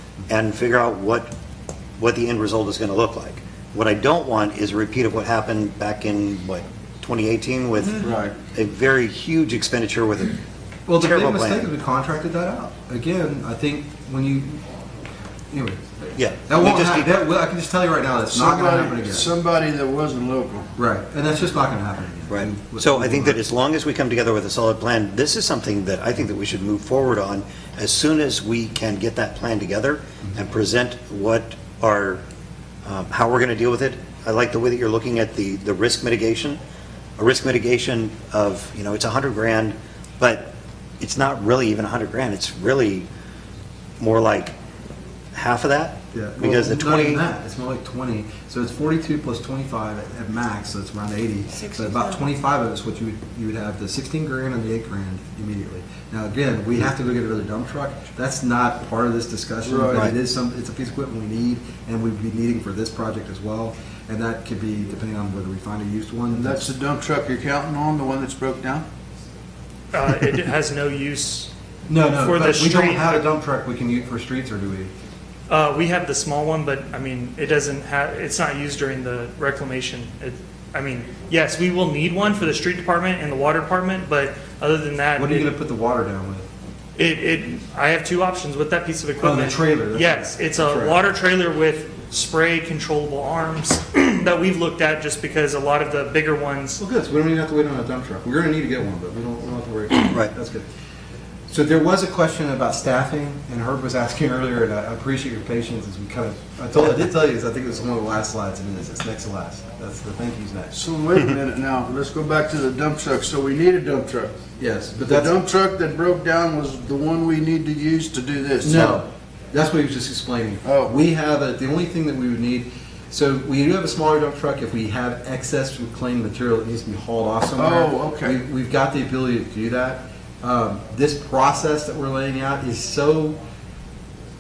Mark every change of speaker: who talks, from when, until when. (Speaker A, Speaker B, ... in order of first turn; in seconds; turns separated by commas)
Speaker A: 0.3-1.3, Speaker A: 2.0-8.0, Speaker B: 8.0-8.4, Speaker A: 8.5-10.4, Speaker C: 10.9-14.6, Speaker A: 11.0-11.7, Speaker C: 15.5-15.8, Speaker A: 16.1-17.2, Speaker C: 16.4-19.3, Speaker B: 18.3-20.7, Speaker C: 20.8-23.4, Speaker A: 22.3-32.2, Speaker A: 32.8-36.6, Speaker A: 37.2-43.1, Speaker A: 44.0-44.6, Speaker A: 45.3-47.2, Speaker C: 46.1-66.7, Speaker B: 59.6-60.1, Speaker B: 66.3-68.9, Speaker D: 69.9-71.5, Speaker C: 71.9-74.9, Speaker D: 72.1-73.2, Speaker D: 75.5-85.5, Speaker C: 85.2-86.5, Speaker D: 87.0-96.8, Speaker C: 89.2-91.0, Speaker C: 96.8-100.7, Speaker C: 101.5-110.8, Speaker B: 110.7-114.4, Speaker C: 114.6-115.3, Speaker B: 115.0-119.0, Speaker C: 118.6-133.4, Speaker B: 120.6-120.9, Speaker B: 127.6-128.4